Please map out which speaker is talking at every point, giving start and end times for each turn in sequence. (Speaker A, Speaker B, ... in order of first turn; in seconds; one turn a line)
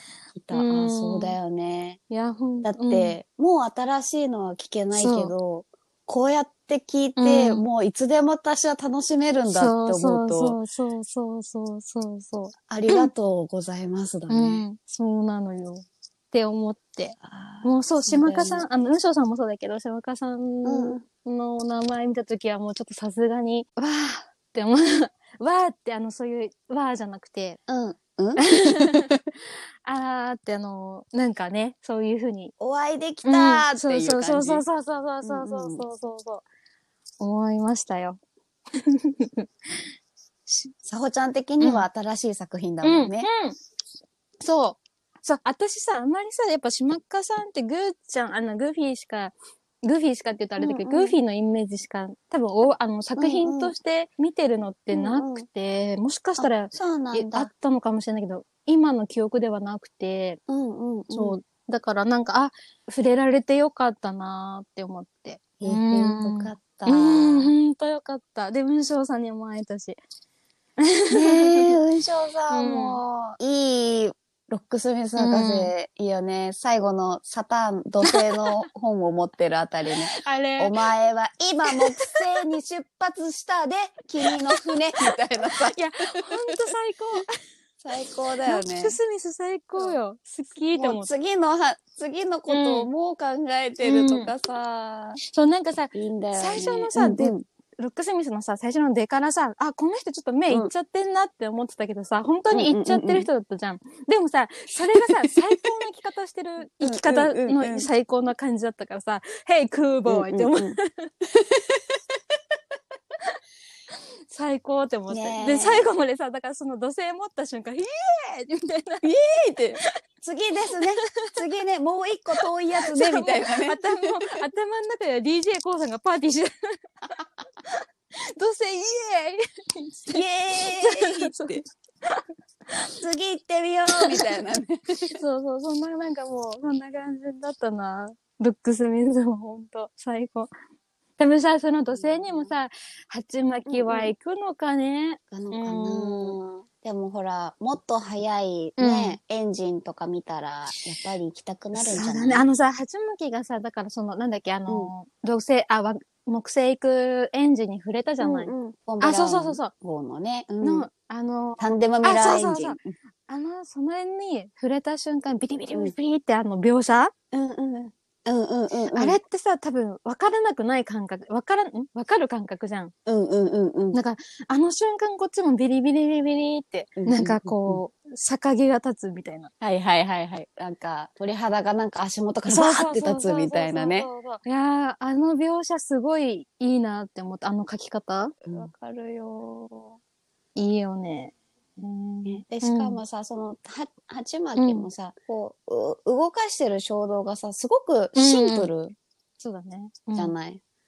Speaker A: 0.3-2.0
Speaker B: 0.5-1.4
Speaker B: 2.1-3.1
Speaker A: 2.6-10.6
Speaker B: 5.0-5.3
Speaker B: 7.2-7.7
Speaker B: 9.5-13.1
Speaker A: 12.7-14.6
Speaker B: 14.3-27.6
Speaker A: 17.2-18.6
Speaker A: 20.6-21.0
Speaker A: 27.7-29.1
Speaker B: 28.4-29.2
Speaker B: 29.8-32.5
Speaker A: 32.6-34.6
Speaker B: 33.2-36.4
Speaker A: 35.2-35.8
Speaker B: 37.2-38.2
Speaker B: 38.8-39.4
Speaker A: 40.8-43.3
Speaker B: 41.6-41.9
Speaker B: 42.8-43.5
Speaker B: 44.4-60.4
Speaker A: 50.6-51.2
Speaker A: 53.2-53.7
Speaker A: 54.9-55.5
Speaker A: 56.4-57.5
Speaker A: 60.5-61.4
Speaker B: 61.1-70.0
Speaker A: 65.6-67.5
Speaker B: 70.8-71.8
Speaker A: 71.1-86.7
Speaker B: 72.5-73.0
Speaker B: 75.2-75.7
Speaker B: 78.0-78.6
Speaker B: 80.1-80.8
Speaker B: 81.7-82.3
Speaker B: 84.2-87.4
Speaker A: 87.8-89.0
Speaker B: 88.4-91.1
Speaker A: 90.7-95.2
Speaker B: 92.5-92.9
Speaker B: 93.8-94.3
Speaker B: 95.2-111.1
Speaker A: 95.9-97.4
Speaker A: 102.5-103.3
Speaker A: 105.0-105.4
Speaker A: 106.8-107.9
Speaker A: 110.1-110.8
Speaker A: 111.3-112.2
Speaker B: 114.3-119.1
Speaker A: 115.1-115.9
Speaker A: 119.0-124.3
Speaker B: 122.4-126.5
Speaker B: 127.7-132.9
Speaker A: 130.1-131.6
Speaker A: 132.9-135.1
Speaker B: 133.9-134.3
Speaker B: 135.1-140.5
Speaker B: 141.2-146.3
Speaker A: 141.9-142.5
Speaker A: 143.7-144.1
Speaker A: 145.3-152.4
Speaker B: 148.8-149.2
Speaker B: 151.7-159.7
Speaker A: 154.7-154.9
Speaker A: 158.2-160.9
Speaker B: 160.6-167.1
Speaker A: 161.6-162.8
Speaker A: 167.3-169.2
Speaker B: 168.9-172.9
Speaker A: 173.1-174.0
Speaker B: 173.9-179.5
Speaker A: 177.0-177.8
Speaker A: 179.6-184.1
Speaker B: 182.5-188.4
Speaker A: 188.4-190.0
Speaker B: 190.6-193.0
Speaker A: 192.2-198.9
Speaker B: 194.6-194.9
Speaker B: 198.2-198.7
Speaker B: 199.4-200.3
Speaker A: 200.2-200.6